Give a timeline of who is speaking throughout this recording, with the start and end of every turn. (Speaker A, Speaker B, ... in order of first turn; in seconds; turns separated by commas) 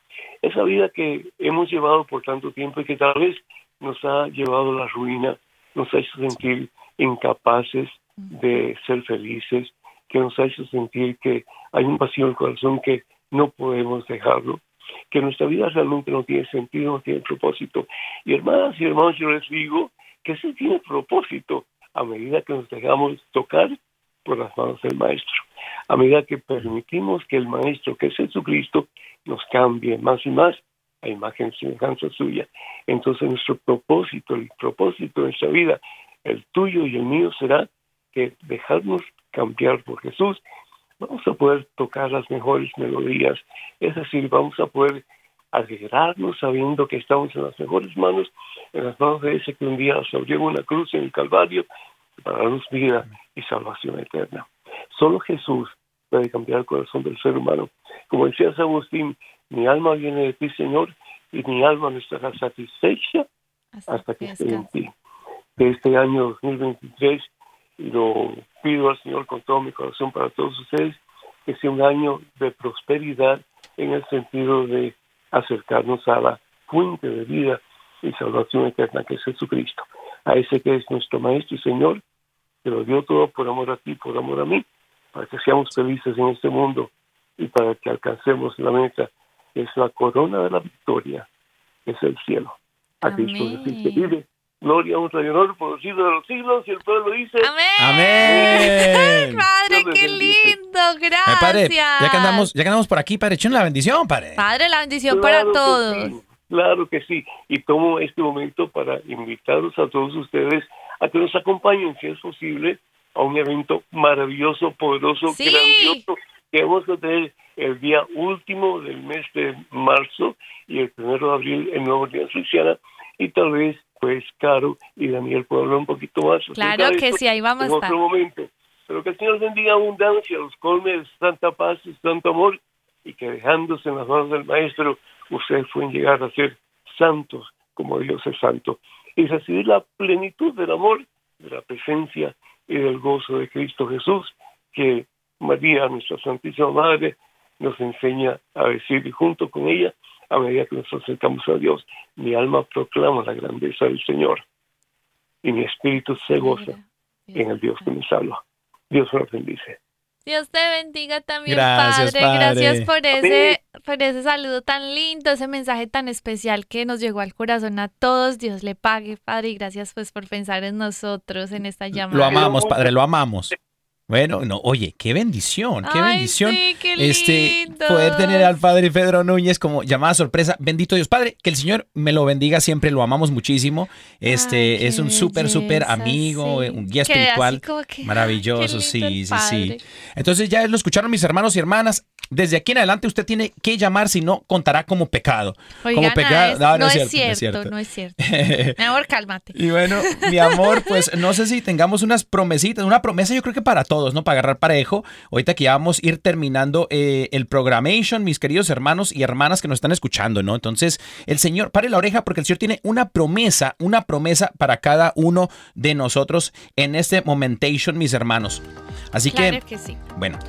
Speaker A: 0.4-40.4, Speaker A: 41.0-51.7, Speaker A: 52.2-63.3, Speaker B: 63.7-64.7, Speaker A: 63.9-64.9, Speaker A: 65.6-82.0, Speaker A: 82.6-91.3, Speaker A: 91.9-97.5, Speaker B: 93.0-94.1, Speaker B: 97.4-102.5, Speaker C: 97.8-99.4, Speaker A: 98.2-98.8, Speaker A: 99.7-100.6, Speaker C: 101.3-104.5, Speaker B: 104.4-106.1, Speaker A: 105.1-154.4, Speaker B: 115.3-116.1, Speaker B: 126.5-128.0, Speaker A: 155.4-156.8, Speaker B: 156.3-157.9, Speaker A: 157.3-159.8, Speaker B: 160.3-172.5, Speaker C: 161.5-162.9, Speaker A: 163.2-163.6, Speaker C: 172.1-173.5, Speaker A: 172.3-172.9, Speaker C: 174.1-198.8, Speaker B: 175.8-178.5, Speaker B: 184.3-189.8, Speaker B: 195.8-201.0, Speaker C: 199.5-219.6, Speaker B: 219.3-220.0, Speaker C: 220.2-220.4